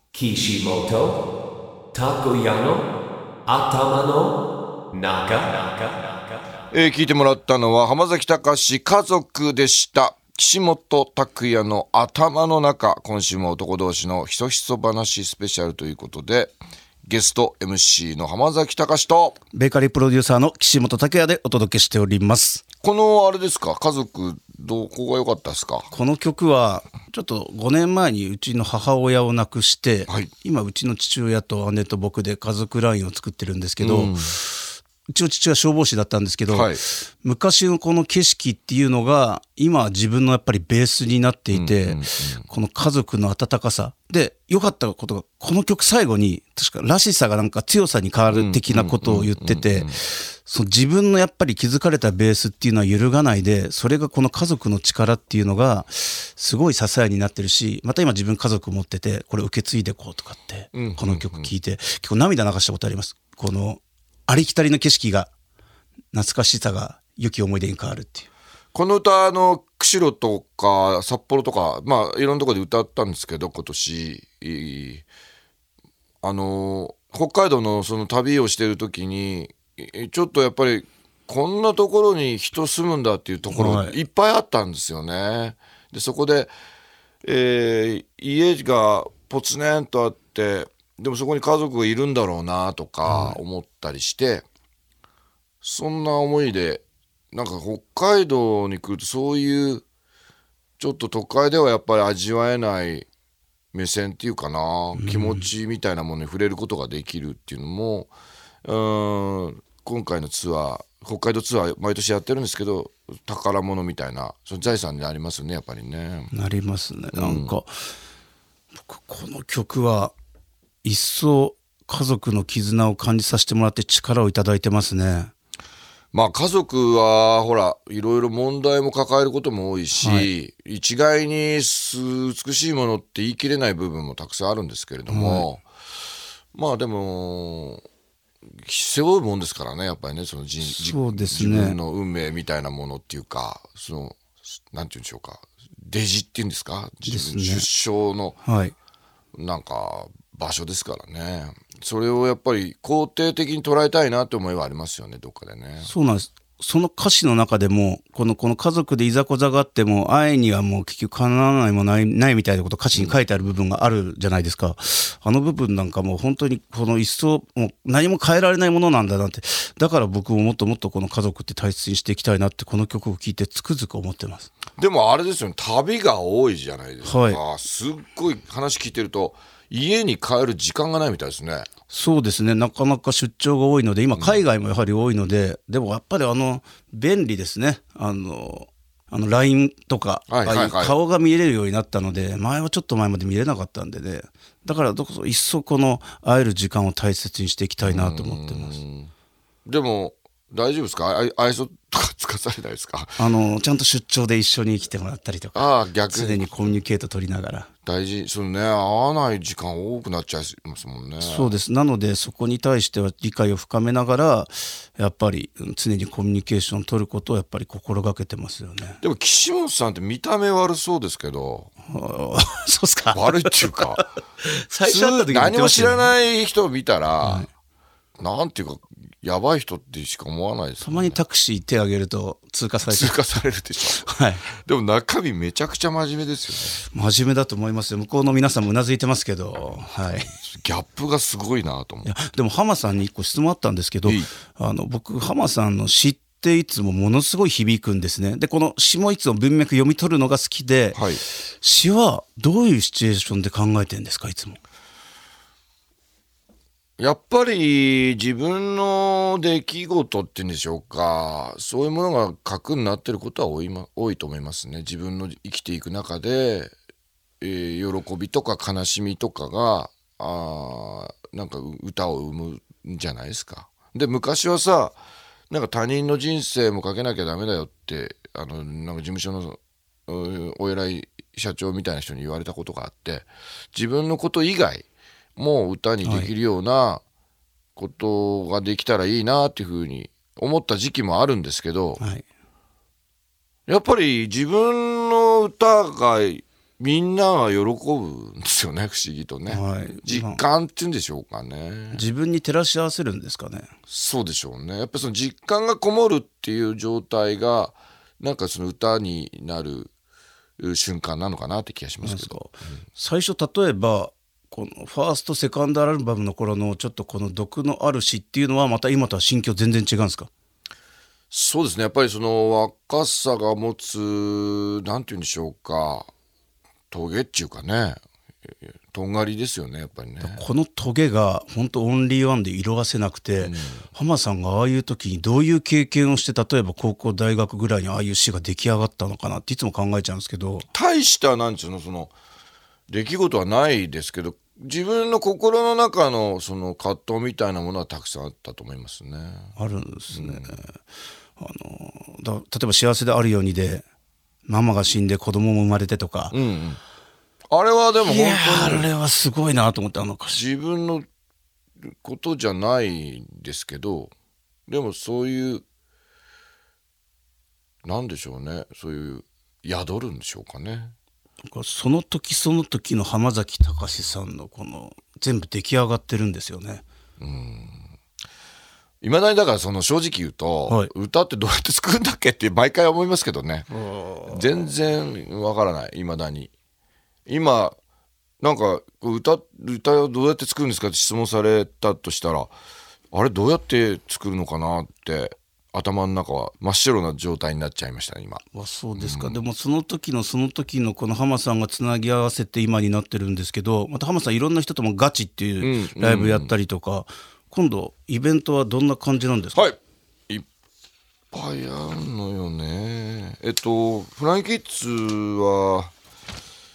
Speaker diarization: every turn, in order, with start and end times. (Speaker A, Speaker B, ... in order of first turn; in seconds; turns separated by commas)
Speaker A: 0.1-1.2, Speaker A: 1.9-2.9, Speaker A: 3.5-4.4, Speaker A: 4.9-6.2, Speaker B: 6.7-19.4, Speaker C: 19.5-22.6, Speaker B: 22.8-25.9, Speaker C: 25.9-65.3, Speaker B: 33.8-34.4, Speaker B: 36.5-36.8, Speaker B: 41.5-42.5, Speaker B: 48.3-50.0, Speaker B: 60.7-61.5, Speaker C: 66.1-68.3, Speaker B: 68.7-75.1, Speaker B: 76.2-86.5, Speaker C: 83.5-84.0, Speaker B: 87.2-94.5, Speaker C: 93.0-93.4, Speaker B: 95.6-99.8, Speaker B: 100.8-103.1, Speaker B: 103.7-108.1, Speaker C: 105.0-105.5, Speaker B: 108.7-116.3, Speaker C: 116.3-117.7, Speaker B: 117.1-117.6, Speaker C: 118.8-120.1, Speaker C: 120.8-125.3, Speaker B: 126.1-135.7, Speaker C: 130.0-130.3, Speaker C: 135.1-135.5, Speaker B: 136.5-137.8, Speaker B: 138.6-148.4, Speaker C: 140.6-141.8, Speaker C: 147.1-147.7, Speaker C: 148.4-148.8, Speaker B: 149.3-155.9, Speaker C: 155.8-174.5, Speaker B: 162.9-163.2, Speaker B: 174.8-181.7, Speaker C: 177.0-177.4, Speaker C: 181.9-198.8, Speaker B: 190.3-191.0, Speaker B: 197.8-199.1, Speaker B: 199.7-203.3, Speaker C: 203.2-207.7, Speaker B: 205.6-206.8, Speaker B: 207.9-211.6, Speaker C: 211.2-219.0, Speaker B: 219.0-221.7, Speaker C: 221.9-226.1, Speaker B: 223.1-224.1, Speaker B: 224.8-227.5, Speaker C: 227.2-227.5, Speaker B: 228.2-231.2, Speaker C: 230.8-233.4, Speaker B: 232.9-234.0, Speaker C: 233.9-234.5, Speaker B: 234.6-236.8, Speaker C: 236.8-240.3, Speaker B: 240.1-242.1, Speaker C: 242.0-254.6, Speaker B: 244.1-244.3, Speaker B: 250.9-251.2, Speaker B: 257.0-266.7, Speaker B: 267.4-275.0, Speaker B: 275.5-287.0, Speaker C: 286.0-286.3, Speaker B: 287.8-292.0, Speaker C: 292.0-292.2, Speaker B: 293.7-302.0, Speaker C: 299.5-300.4, Speaker C: 301.9-303.7, Speaker B: 303.9-309.9, Speaker B: 310.6-312.7, Speaker C: 312.0-320.3, Speaker B: 321.3-326.1, Speaker B: 326.9-328.0, Speaker B: 328.9-330.4, Speaker C: 330.2-340.7, Speaker B: 333.4-333.9, Speaker B: 340.7-342.1, Speaker B: 342.9-349.6, Speaker C: 349.6-350.8, Speaker B: 350.1-350.6, Speaker C: 351.4-353.8, Speaker C: 354.5-356.4, Speaker B: 356.3-356.8, Speaker B: 357.5-358.9, Speaker C: 358.0-360.4, Speaker B: 360.3-361.1, Speaker B: 361.9-364.1, Speaker B: 364.7-365.6, Speaker B: 367.8-370.9, Speaker C: 371.4-376.8, Speaker B: 377.2-377.9, Speaker B: 379.0-383.7, Speaker C: 383.7-384.7, Speaker B: 384.3-386.5, Speaker B: 387.3-387.8, Speaker B: 388.4-392.5, Speaker B: 393.1-398.4, Speaker C: 398.5-409.7, Speaker B: 399.0-399.4, Speaker B: 405.6-406.6, Speaker B: 411.3-415.9